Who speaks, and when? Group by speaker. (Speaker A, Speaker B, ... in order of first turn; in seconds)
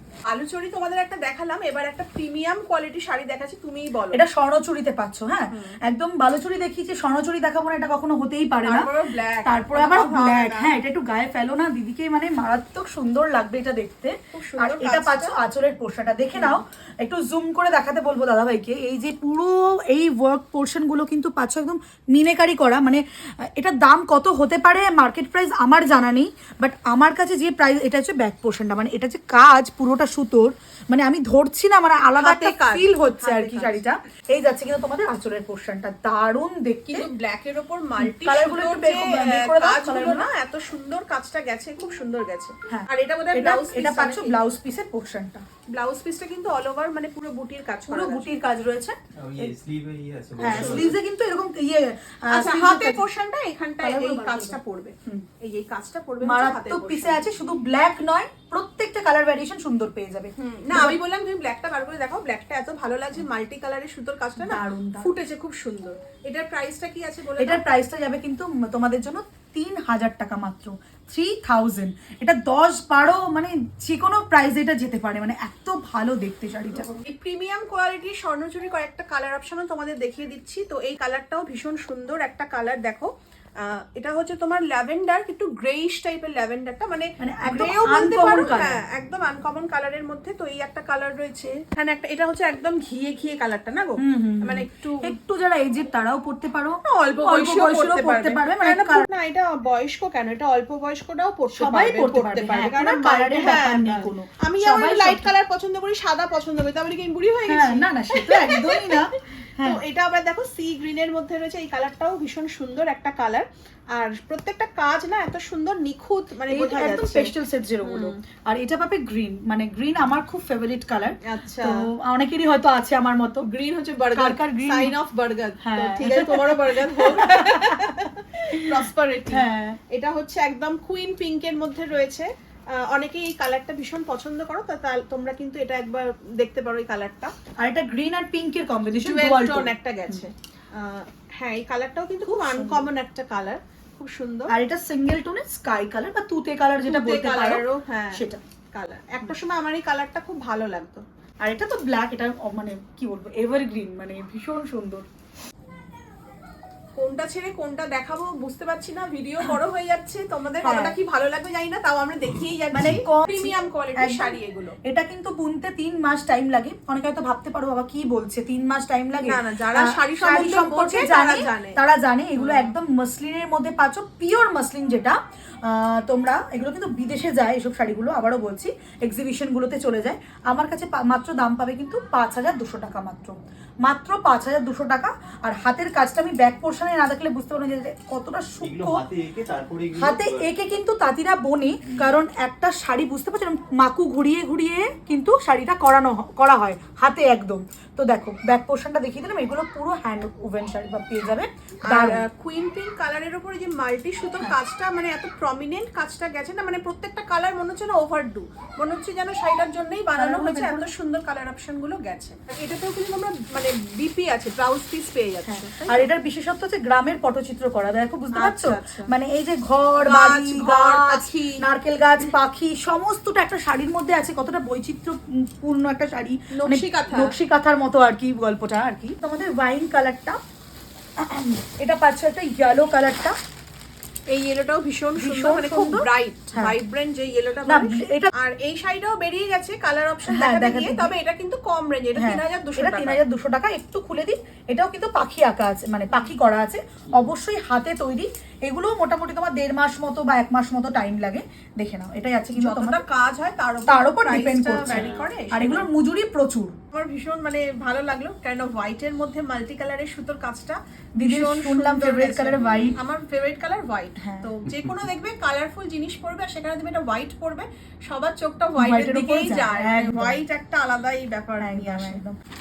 Speaker A: 0.2-4.2, 5.5-5.8, 8.6-10.7, 14.3-15.3, 16.3-16.6, 32.2-33.8, 36.9-44.4, 45.7-48.3, 52.3-57.2, 60.4-67.7, 76.7-95.1, 96.8-118.2, 121.2-121.9, 123.4-137.3, 139.0-144.5, 146.8-151.0, 156.9-164.8, 169.2-171.8, 172.3-172.7, 201.9-216.1, 218.3-219.1, 220.0-221.7, 226.5-227.3, 234.3-243.2, 252.6-255.9, 256.9-272.2
Speaker B: 4.1-8.9, 9.4-37.0, 38.0-40.3, 42.7-45.4, 47.9-49.5, 50.4-53.0, 53.8-55.2, 56.2-61.0, 64.4-65.1, 67.4-76.9, 87.2-88.8, 94.0-99.1, 101.5-105.3, 107.5-109.8, 116.5-123.4, 124.1-124.9, 125.6-129.8, 137.6-140.2, 142.2-142.9, 144.5-148.4, 151.4-155.1, 160.6-161.0, 162.7-189.0, 189.9-202.2, 210.2-210.9, 215.5-230.4, 231.2-233.3, 235.2-236.8, 237.7-238.3, 240.2-241.1, 242.1-253.0, 253.9-256.8, 261.2-263.0, 264.2-264.5, 268.8-270.4, 271.6-272.4
Speaker C: 49.1-51.0, 188.6-190.5